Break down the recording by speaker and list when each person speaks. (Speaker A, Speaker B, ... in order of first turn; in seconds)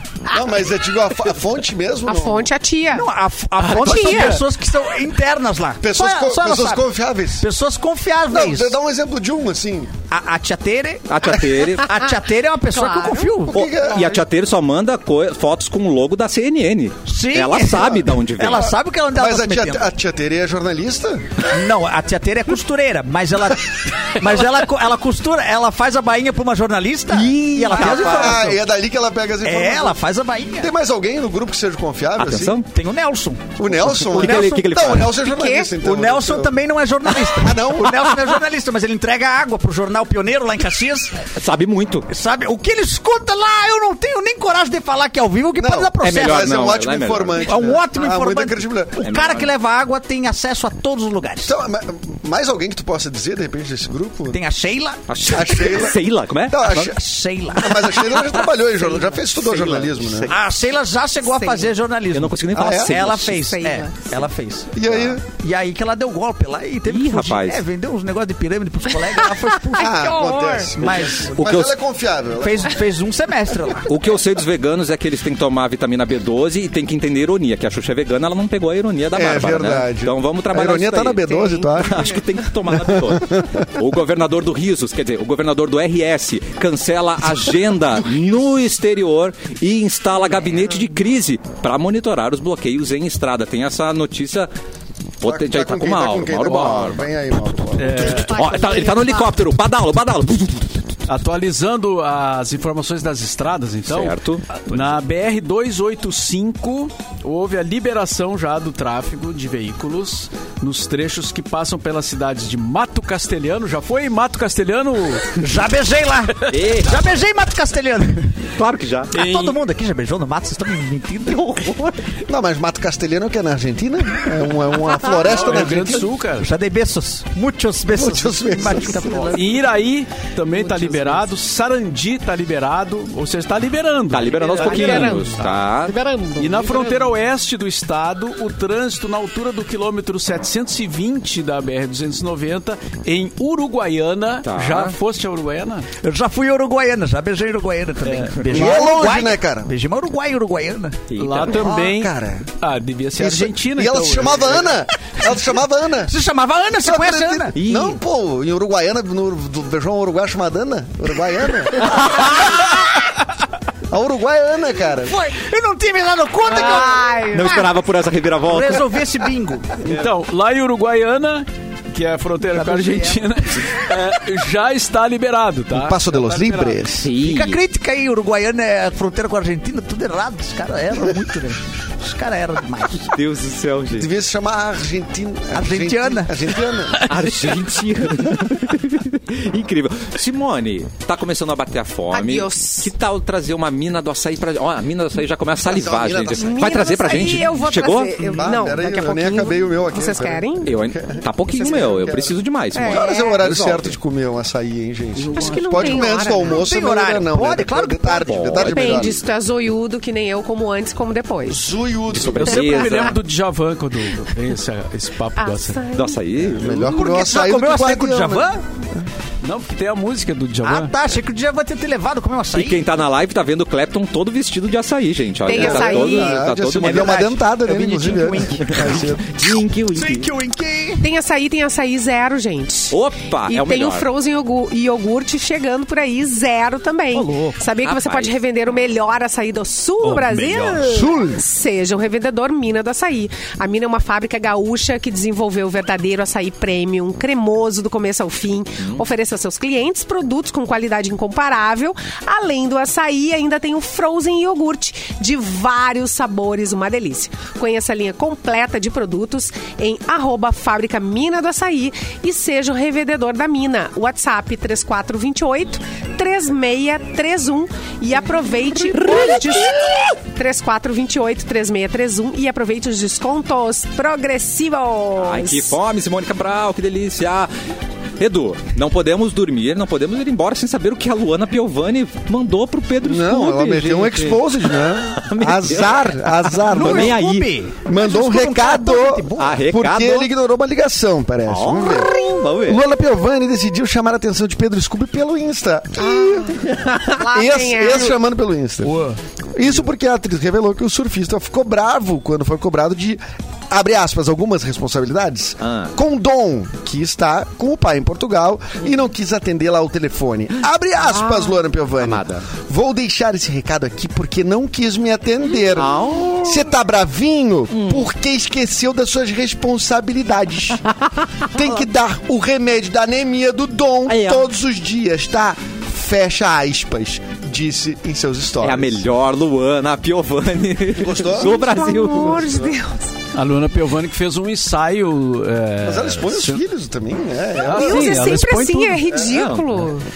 Speaker A: 0.3-2.5, 5.8-7.5, 8.3-9.9, 13.5-14.2, 18.5-21.4, 27.6-30.0, 30.6-32.6, 33.6-36.5, 37.2-38.1, 45.6-49.0, 51.4-54.4, 55.3-57.0, 57.5-60.3, 62.5-63.0, 64.7-65.2, 69.8-72.8, 79.1-82.2, 82.7-83.6, 95.2-98.3, 122.3-126.1, 127.9-129.4, 148.5-149.7, 151.5-152.5, 153.2-156.1, 156.8-162.1, 163.9-165.1, 175.7-177.1, 183.9-187.0, 195.6-196.9, 198.2-209.2, 211.5-212.9, 216.4-218.5, 225.5-229.3, 283.0-287.2, 287.8-299.0, 299.5-320.8, 321.4-329.0, 330.9-331.7, 335.8-338.2
Speaker B: 2.0-3.1, 3.7-4.4, 12.7-13.3, 35.2-35.7, 61.2-61.7, 63.1-63.9, 69.4-70.7, 81.2-82.2, 97.9-99.4, 134.3-137.1, 166.4-167.7, 192.1-192.9, 196.3-200.7, 202.7-203.4, 205.3-206.6, 208.6-211.6, 215.4-216.2, 225.4-226.4, 231.0-275.7, 296.0-298.1, 331.4-333.1, 337.7-340.1
Speaker C: 2.9-6.8, 7.4-8.8, 10.1-13.6, 17.1-19.9, 21.4-28.6, 29.4-30.7, 32.7-33.6, 35.8-41.2, 42.1-46.5, 47.4-51.5, 54.3-55.7, 56.6-58.0, 60.3-64.7, 65.2-70.0, 70.8-71.7, 72.4-73.9, 115.4-118.5, 119.1-122.0, 126.4-129.5, 146.0-151.0, 156.1-157.6, 165.0-167.5, 168.5-169.7, 172.5-173.2, 177.2-183.1, 185.5-186.3, 205.7-208.5, 216.7-218.6, 220.6-222.8, 226.8-231.1, 237.1-237.6, 240.0-241.4, 286.7-289.6
Speaker D: 3.8-4.3, 97.8-98.3, 101.1-115.4, 119.1-119.6, 125.2-126.5, 129.3-135.4, 136.4-145.9, 148.0-148.6, 151.2-154.8, 169.8-176.8, 205.2-205.7, 212.4-215.8, 219.4-220.9, 298.8-299.2, 333.3-336.6, 337.6-339.0
Speaker E: 11.1-11.9, 13.5-18.7, 27.1-28.5, 32.2-32.7, 33.9-35.2, 41.4-42.0, 46.0-47.5, 49.0-49.5, 55.1-56.8, 59.1-60.4, 62.1-63.4, 64.8-65.2, 66.9-67.6, 71.4-71.7, 73.8-94.5, 95.2-97.1, 98.0-100.8, 103.9-104.8, 116.5-117.1, 118.5-119.1, 134.1-135.9, 144.4-144.9, 151.1-151.6, 157.5-158.0, 161.8-162.7, 167.3-169.0, 177.0-177.6, 183.0-184.1, 187.0-198.4, 200.6-203.9, 208.3-209.2, 212.1-213.2, 215.9-216.7, 222.5-227.2, 228.7-230.3, 232.9-234.1, 237.8-238.3, 248.8-249.1, 268.9-270.0, 275.2-277.5, 278.2-287.5, 289.4-290.3, 291.5-292.8, 305.6-305.9, 312.0-312.4, 315.7-316.7, 317.7-318.1, 321.2-321.5, 324.1-324.5, 328.6-332.6, 339.1-339.7